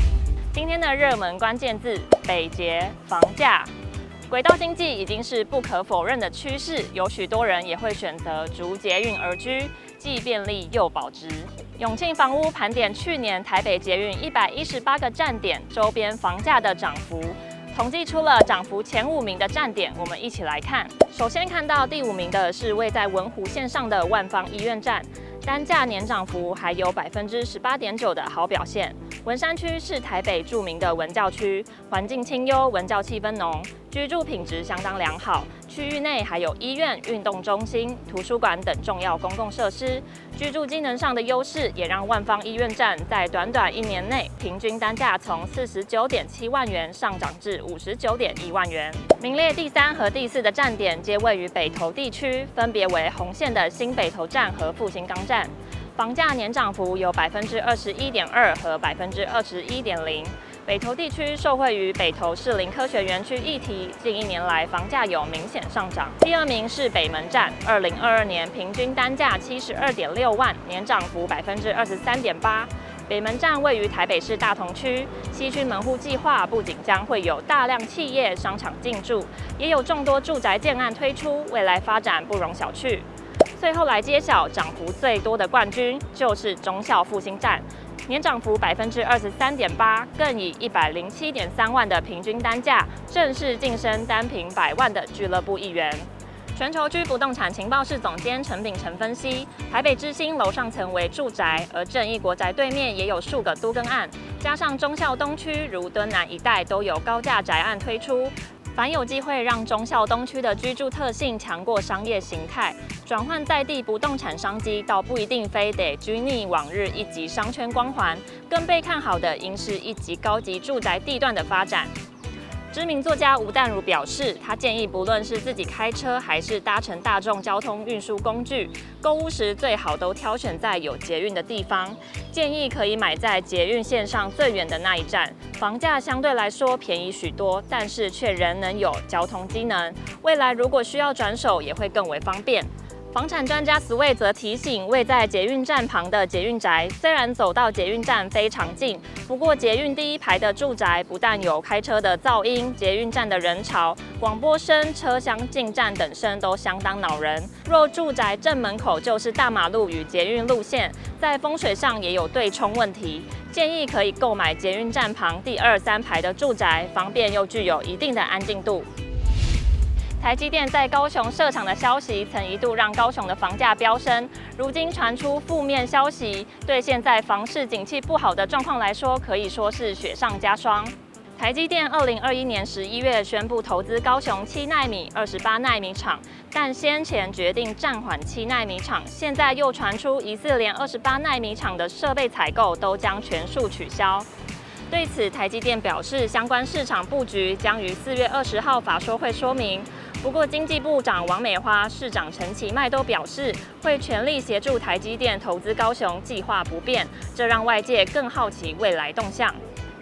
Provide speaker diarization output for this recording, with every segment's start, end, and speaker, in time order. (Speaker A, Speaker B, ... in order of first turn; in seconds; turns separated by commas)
Speaker A: 0.5-3.7, Speaker A: 4.3-121.9, Speaker A: 122.7-168.9, Speaker A: 170.2-194.3, Speaker A: 194.9-209.6